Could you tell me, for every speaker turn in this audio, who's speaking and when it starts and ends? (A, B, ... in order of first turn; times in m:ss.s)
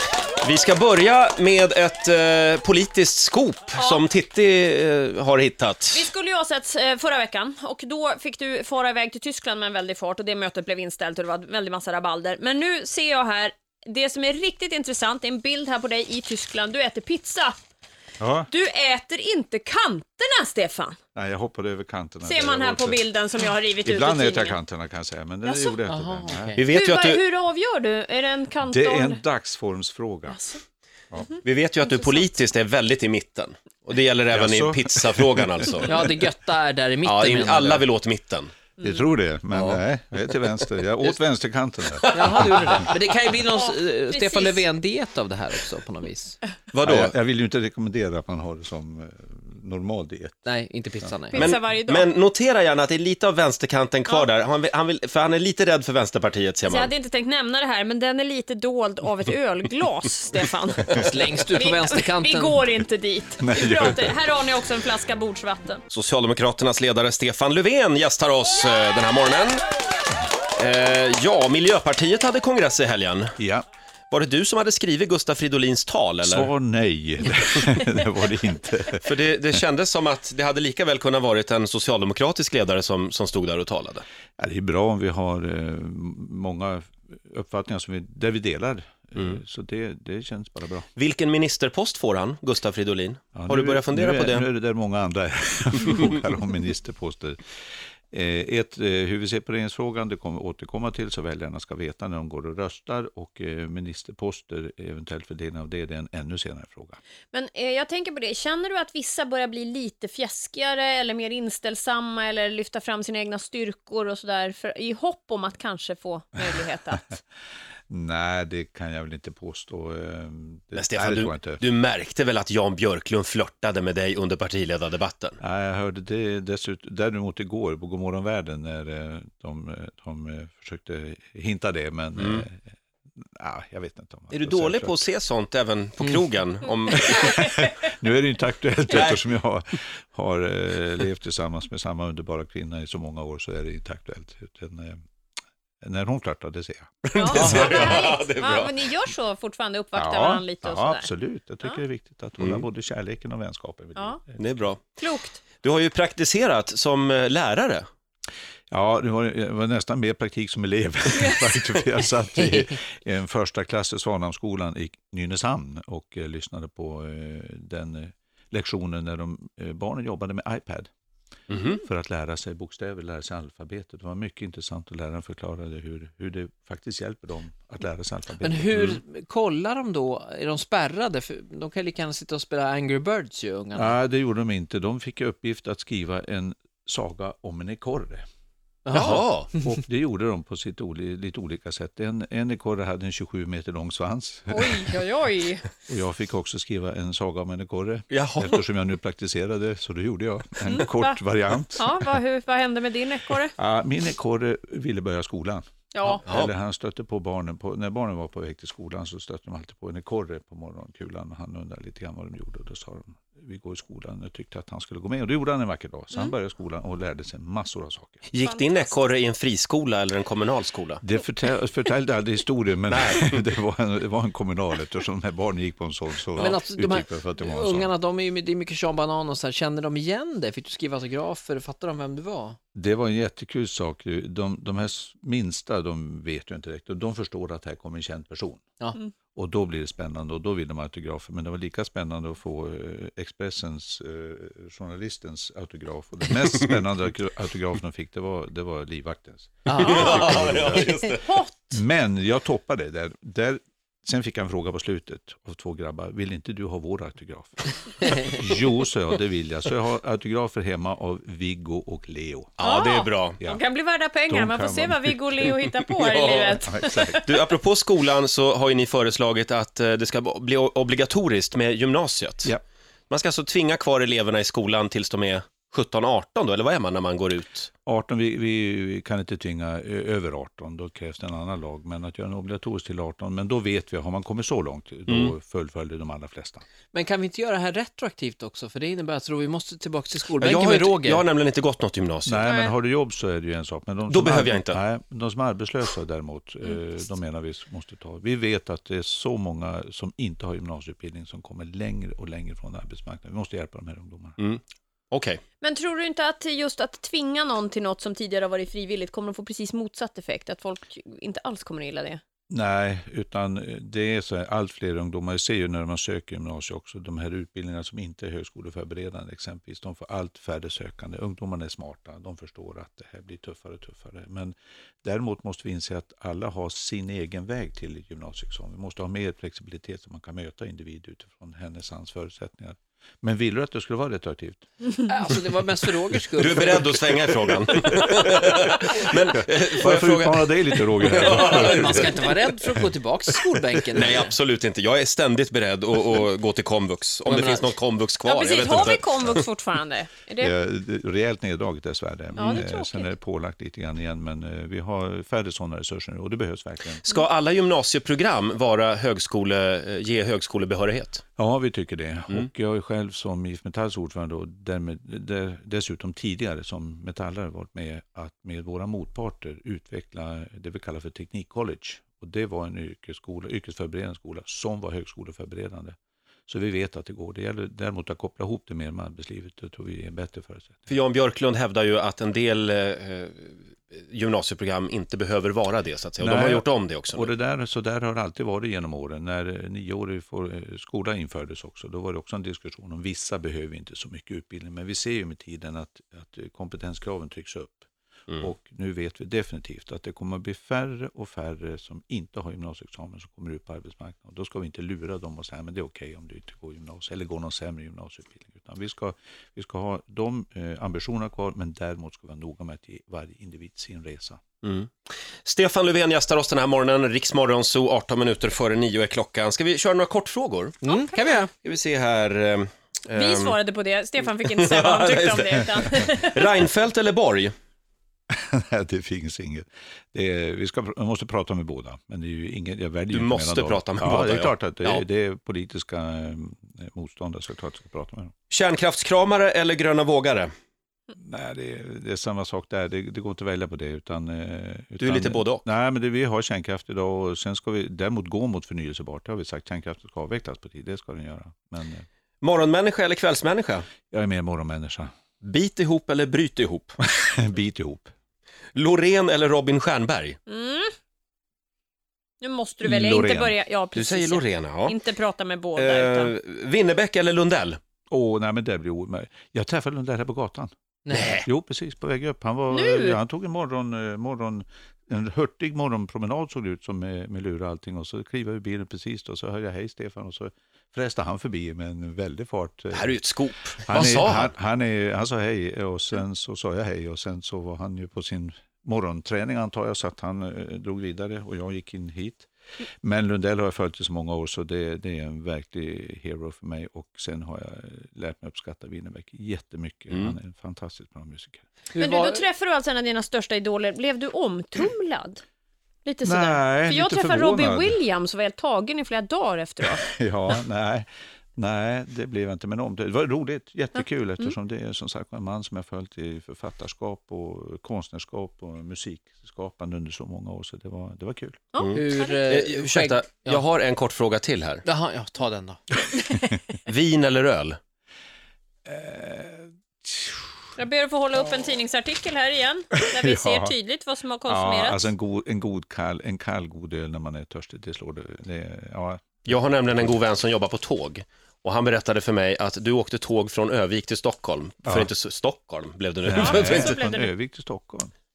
0:00.4-0:06.1 A
0:03.8-0:04.0 B
0:05.9-0:17.6 B
0:18.2-0:18.5 C
0:18.5-0:21.0 B
0:21.1-0:23.0 C
0:22.2-0:24.6 B
0:23.8-0:26.6 C
0:25.4-0:25.8 B
0:25.9-0:26.6 D
0:26.6-0:27.2 A
0:26.7-0:29.2 B
0:28.6-0:30.4 C
0:31.3-0:32.2 B
0:31.4-0:36.1 A
0:34.3-0:35.7 C
0:35.8-0:37.8 D
0:37.0-0:38.5 A
0:38.8-0:42.7 C
0:39.5-0:41.1 A
0:42.0-0:42.9 A
0:42.1-0:46.4 D
0:43.6-0:44.6 B
0:46.7-0:47.1 A
0:46.8-0:51.1 C
0:50.4-0:51.5 D
0:51.3-0:52.1 B
0:51.4-0:56.9 A
0:56.6-1:05.8 B
1:00.9-1:02.6 D
1:03.4-1:04.2 C
1:05.9-1:09.6 A
1:10.5-1:13.3 A
1:13.4-1:13.6 C
1:14.1-1:16.5 A
1:16.2-1:19.0 C
1:19.0-1:24.0 A
1:24.4-1:30.9 C
1:31.0-1:34.5 A
1:33.3-1:37.4 C
1:38.1-1:47.0 C
1:47.3-1:57.1 B
1:56.4-1:56.9 C
1:57.9-2:01.6 C
2:00.7-2:05.4 A
2:05.4-2:15.0 C
2:12.2-2:12.4 A
2:14.3-2:17.4 A
2:16.9-2:25.0 C
2:18.9-2:19.2 A
2:25.8-2:28.0 C
2:27.0-2:28.7 A
2:27.2-2:31.1 B
2:29.9-2:34.5 C
2:32.4-2:32.6 A
2:34.0-2:34.2 B
2:34.4-2:35.0 A
2:35.0-2:35.4 B
2:35.6-2:37.9 A
2:38.7-2:50.9 C
2:41.2-2:41.6 B
2:51.5-2:51.8 A
2:51.7-2:58.9 C
2:58.4-3:04.0 D
3:03.7-3:08.2 C
3:08.8-3:09.7 D
3:08.9-3:09.5 A
3:09.1-3:15.0 C
3:14.5-3:15.7 B
3:15.8-3:22.1 C
3:18.1-3:18.6 A
3:20.6-3:21.2 B
3:21.8-3:23.5 B
3:23.5-3:38.2 C
3:25.9-3:26.2 B
3:26.2-3:26.5 A
3:38.3-3:41.0 A
3:38.4-3:39.0 B
3:41.0-3:47.9 C
3:42.9-3:43.4 A
3:46.4-3:52.6 D
3:52.7-3:58.6 C
3:59.3-4:11.1 C
4:09.7-4:11.0 D
4:09.8-4:11.3 A
4:11.2-4:11.8 B
4:11.7-4:22.6 C
4:22.6-4:23.4 A
4:22.6-4:27.0 B
4:24.3-4:25.6 C
4:26.0-4:32.5 A
4:26.6-4:27.3 C
4:33.1-4:37.7 A
4:37.8-4:46.6 C
4:45.1-4:45.3 A
4:46.9-4:51.2 D
4:50.4-4:52.4 A
4:52.2-5:04.4 C
4:52.5-4:52.7 B
4:54.1-4:54.8 A
5:04.4-5:05.4 A
5:05.6-5:12.2 B
5:12.5-5:34.6 C
5:35.0-5:37.0 D
5:36.4-5:42.4 A
5:37.9-5:38.6 C
5:39.3-5:42.2 C
5:41.2-5:44.3 D
5:43.9-5:49.4 A
5:47.2-5:47.8 D
5:48.2-5:50.5 B
5:50.4-5:57.0 C
5:52.3-5:53.1 B
5:57.0-6:01.2 A
6:01.4-6:16.0 C
6:16.5-6:20.9 C
6:20.9-6:27.3 A
6:26.2-6:54.4 C
6:54.6-6:54.9 A
6:55.4-7:00.8 A
7:00.8-7:01.5 D
7:00.9-7:01.3 B
7:01.6-7:03.6 A
7:03.1-7:06.6 B
7:04.4-7:07.5 A
7:08.3-7:18.3 C
7:13.1-7:15.0 A
7:18.5-7:20.5 A
7:21.1-7:32.0 C
7:25.0-7:25.6 A
7:32.4-7:33.8 A
7:34.1-7:35.1 C
7:35.4-7:37.0 A
7:37.0-7:38.1 C
7:38.7-7:40.4 A
7:40.5-7:40.9 B
7:42.4-7:46.3 B
7:42.8-7:43.6 C
7:43.9-7:45.0 A
7:45.8-7:47.8 A
7:48.1-8:12.5 C
7:51.0-7:51.4 D
7:52.7-7:53.2 B
8:02.9-8:04.5 A
8:13.0-8:21.6 C
8:20.1-8:20.4 A
8:21.9-8:22.4 D
8:22.0-8:25.4 B
8:26.0-8:30.0 B
8:26.2-8:28.0 C
8:30.0-8:41.7 C
8:41.7-8:42.4 B
8:41.8-8:44.8 A
8:41.9-8:43.6 D
8:44.8-8:45.9 D
8:46.8-8:47.8 A
8:48.8-8:50.5 C
8:50.8-8:55.1 B
8:53.1-8:53.7 C
8:54.5-9:00.1 C
8:59.4-9:07.0 A
9:04.8-9:05.1 C
9:06.2-9:08.1 C
9:06.4-9:07.3 B